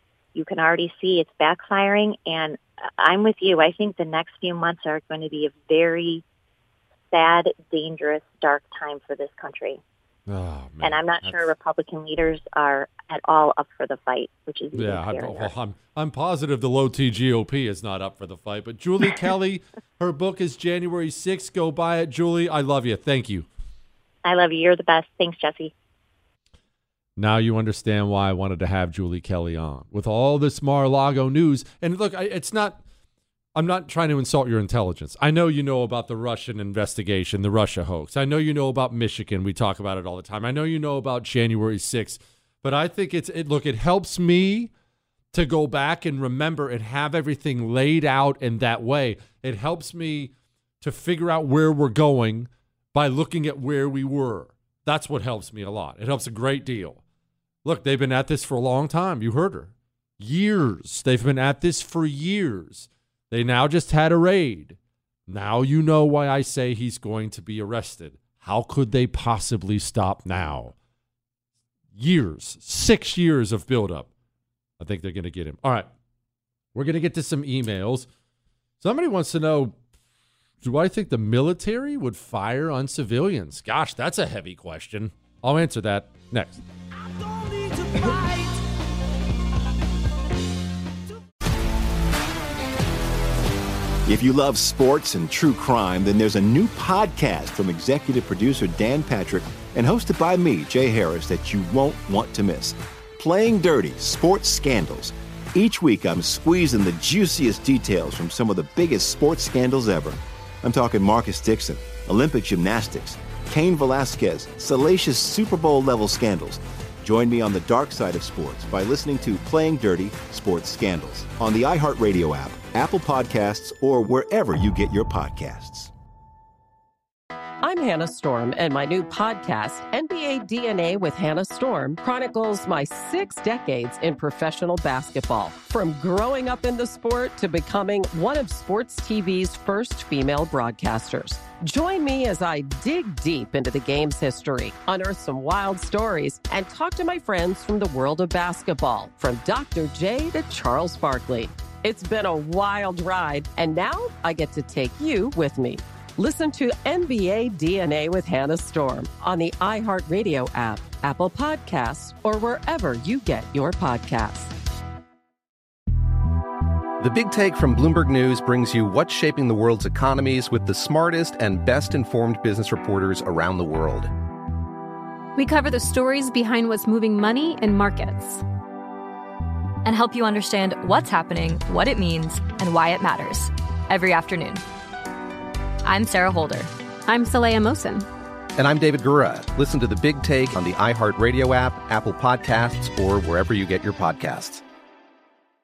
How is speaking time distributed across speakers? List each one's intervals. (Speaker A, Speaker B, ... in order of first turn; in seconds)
Speaker A: 0.3-6.2, 7.1-9.8, 10.8-15.5, 24.2-25.7
Speaker B: 10.3-11.4, 14.7-23.5, 27.2-32.8, 33.5-44.7, 45.3-57.0, 57.6-64.8, 65.3-70.7, 71.9-74.1, 74.8-75.9, 76.7-78.1, 78.8-79.8, 80.6-86.6, 87.9-88.2
Speaker C: 94.0-125.9
Speaker D: 127.6-164.5
Speaker E: 167.0-174.1, 188.6-194.6
Speaker F: 175.3-178.4, 187.1-188.1
Speaker G: 179.8-184.6, 185.8-186.7